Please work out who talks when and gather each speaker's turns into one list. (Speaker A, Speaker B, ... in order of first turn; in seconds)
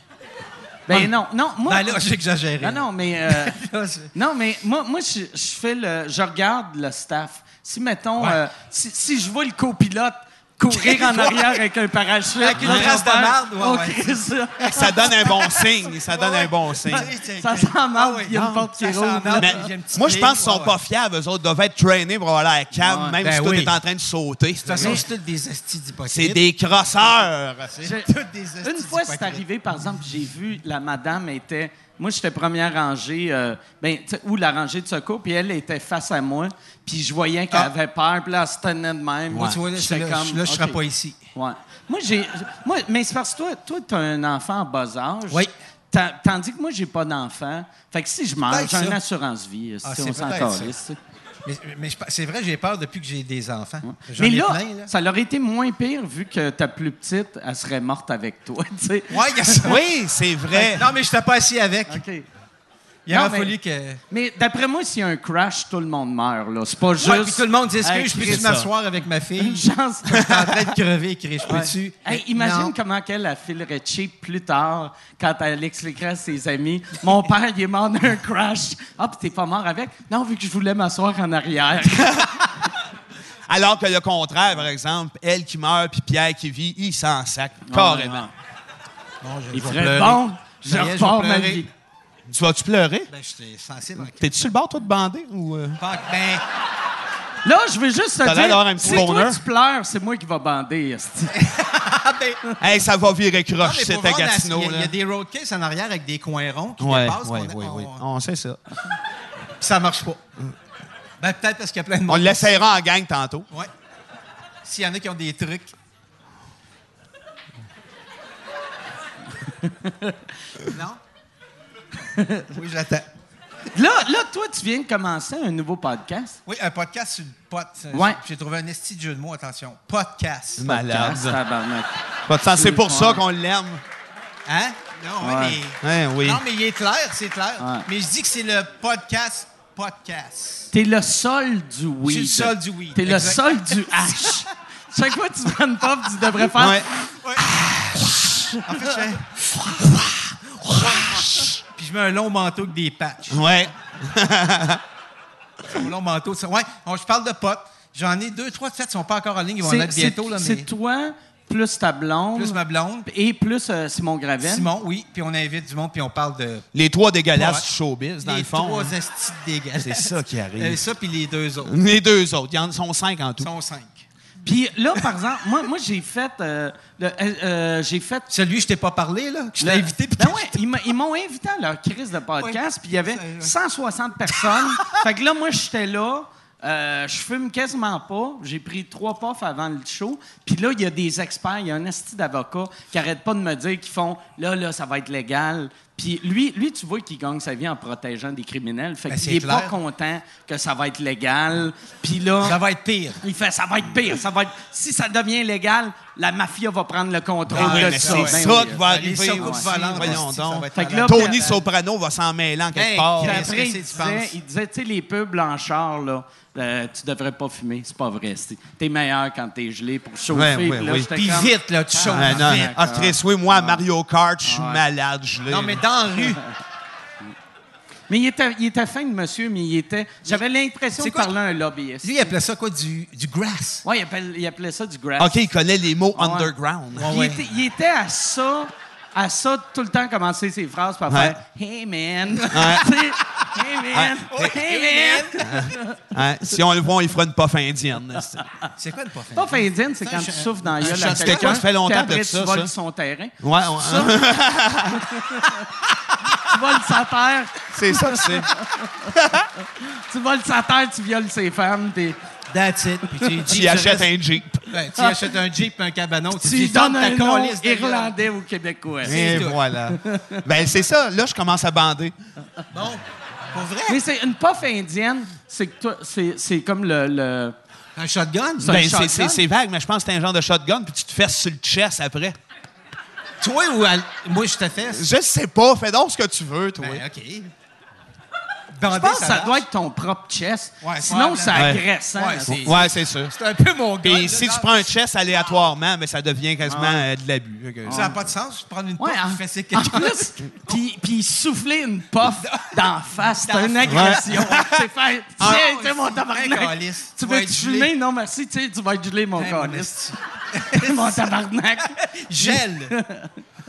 Speaker A: 0.9-2.1, 2.6-3.6, 4.1-15.3, 16.9-19.7, 22.8-23.2, 27.8-28.1, 28.6-40.8, 41.3-51.0, 53.8-59.6, 61.9-62.2, 63.1-63.5, 64.1-68.5, 69.4-70.3, 71.5-82.3, 87.7-88.3, 89.5-91.7, 97.4-101.4, 119.6-120.1, 122.1-122.4, 123.7-126.4, 127.9-128.2, 130.7-131.9, 132.5-133.2, 135.2-135.6, 137.6-137.9, 140.7-146.9, 147.5-148.5, 159.6-164.7, 174.4-178.3, 179.6-202.6, 203.2-210.2, 210.7-211.4, 213.2-223.8, 224.4-224.8, 228.1-232.3, 233.8-235.4, 236.1-236.5, 237.0-246.0, 249.3-254.2, 255.0-255.6, 256.4-259.1, 259.8-262.2, 266.3-269.4, 270.0-270.4, 273.9-277.6, 278.6-279.4, 288.9-292.7, 297.9-298.1, 299.0-309.9, 310.7-313.3
Speaker B: 0.9-4.1, 10.7-11.6, 12.4-20.7, 23.2-23.8, 24.6-26.4, 27.0-29.4, 39.4-41.2, 48.5-49.0, 49.8-50.7, 51.4-54.9, 59.1-59.8, 60.5-62.0, 63.0-64.0, 67.0-72.7, 89.2-91.6, 93.1-94.2, 95.8-96.4, 101.3-102.4, 103.6-108.0, 109.6-110.2, 111.2-112.5, 114.6-115.7, 120.7-121.0, 122.5-123.1, 126.5-130.8, 134.4-140.7, 142.0-144.4, 147.0-147.5, 148.6-149.9, 150.6-153.5, 155.7-160.7, 162.3-163.1, 164.4-166.7, 167.3-167.7, 168.2-171.9, 173.4-174.0, 178.3-180.8, 182.4-183.5, 184.5-184.8, 199.1-199.7, 202.4-203.2, 207.5-211.6, 212.7-214.3, 221.1-222.8, 225.5-226.4, 230.9-231.3, 232.0-233.8, 236.9-237.6, 244.3-245.7, 248.8-251.6, 262.5-264.1, 264.7-268.1, 269.0-269.6, 272.7-274.0, 277.9-278.8, 283.4-285.1, 286.8-287.5, 288.7-289.6, 290.8-294.8, 296.6-297.0, 297.9-300.2, 302.4-304.8, 305.4-307.9, 309.4-311.3, 311.9-312.9
Speaker C: 12.6-13.0, 14.7-17.1, 19.4-25.1, 26.1-27.7, 59.6-60.9, 68.2-68.7, 83.5-88.3, 92.3-93.1, 94.2-95.8, 98.2-99.4, 102.6-104.9, 106.8-108.6, 112.1-113.5, 130.6-131.4, 132.3-133.8, 135.8-136.4, 146.6-146.9, 150.8-151.5, 153.3-154.8, 166.7-168.9, 169.8-170.8, 171.6-173.5, 207.5-213.5, 220.3-221.1, 222.0-225.8, 235.2-237.1, 241.1-241.3, 242.5-242.8, 243.9-244.5, 245.4-248.4, 250.8-252.7, 253.4-255.1, 257.7-258.5, 259.1-259.5, 263.5-264.6, 269.0-272.1, 278.6-282.4, 284.9-287.0, 291.5-291.8, 292.6-293.3, 294.0-298.1, 303.9-304.5